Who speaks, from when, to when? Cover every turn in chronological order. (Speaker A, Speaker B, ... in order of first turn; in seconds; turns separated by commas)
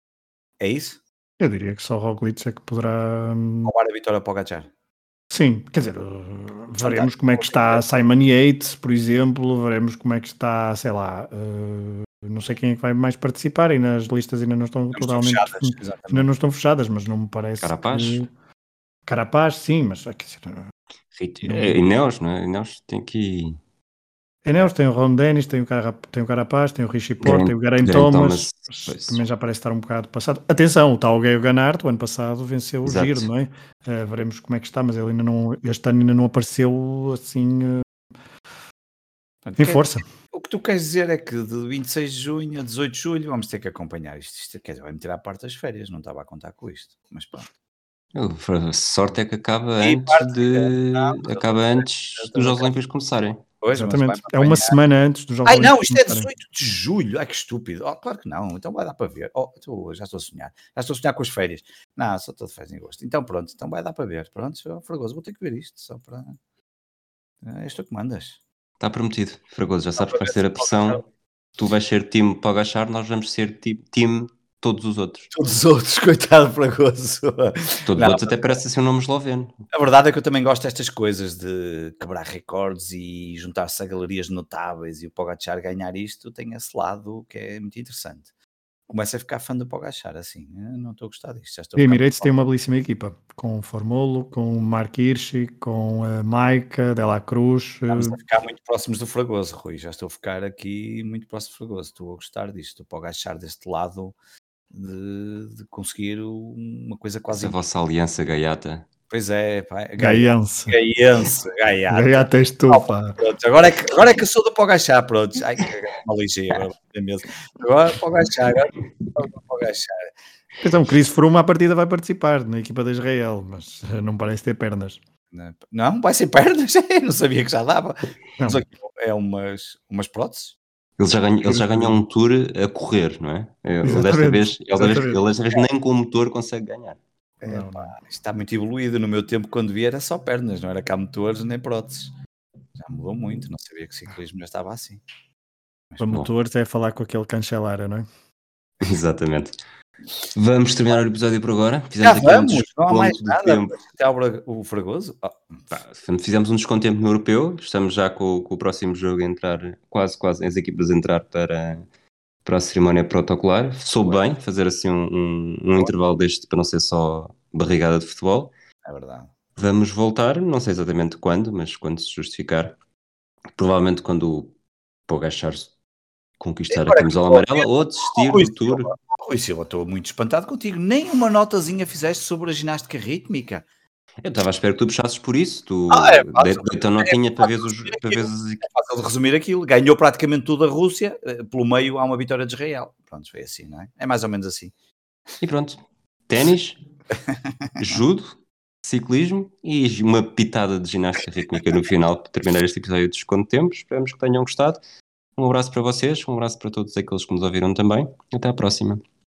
Speaker A: 0.6-1.0, Speaker B: 1.4-3.7, Speaker A: 3.6-4.7, Speaker B: 5.3-18.3, Speaker A: 6.8-7.8, Speaker A: 14.9-16.3, Speaker C: 17.6-18.2, Speaker B: 19.1-20.7, Speaker C: 21.1-23.6, Speaker B: 21.4-21.8, Speaker B: 24.4-37.8, Speaker C: 27.2-29.2, Speaker C: 32.8-33.3, Speaker A: 39.4-47.5, Speaker B: 39.6-40.0, Speaker C: 48.1-53.4, Speaker A: 49.8-52.7, Speaker A: 53.6-54.8, Speaker B: 53.8-56.3, Speaker A: 55.5-66.3, Speaker A: 67.4-68.4, Speaker C: 68.8-71.0, Speaker A: 70.0-71.0, Speaker C: 71.6-75.3, Speaker A: 75.3-78.5, Speaker C: 77.8-79.5, Speaker A: 79.7-88.3, Speaker A: 88.9-92.5, Speaker B: 91.8-98.2, Speaker A: 97.9-104.1, Speaker A: 104.7-107.6, Speaker C: 107.3-108.9, Speaker A: 109.1-120.1, Speaker B: 110.0-110.8, Speaker B: 111.9-113.2, Speaker B: 120.6-125.0, Speaker A: 125.3-130.6, Speaker B: 128.4-128.6, Speaker C: 131.0-137.0, Speaker B: 131.4-132.0, Speaker B: 133.8-135.2, Speaker A: 137.4-142.1, Speaker B: 137.5-137.9, Speaker A: 142.8-145.0, Speaker B: 146.0-148.1, Speaker C: 148.8-149.6, Speaker C: 150.3-153.8, Speaker A: 152.0-155.7, Speaker C: 155.7-161.8, Speaker C: 162.4-168.5, Speaker A: 164.0-164.3, Speaker A: 168.8-169.3, Speaker C: 169.6-172.7, Speaker C: 173.6-174.5, Speaker C: 175.1-175.7, Speaker C: 176.4-178.9, Speaker A: 176.7-183.6, Speaker C: 184.2-188.7, Speaker A: 185.9-194.7, Speaker C: 195.4-196.8, Speaker C: 197.8-204.8, Speaker C: 205.4-209.0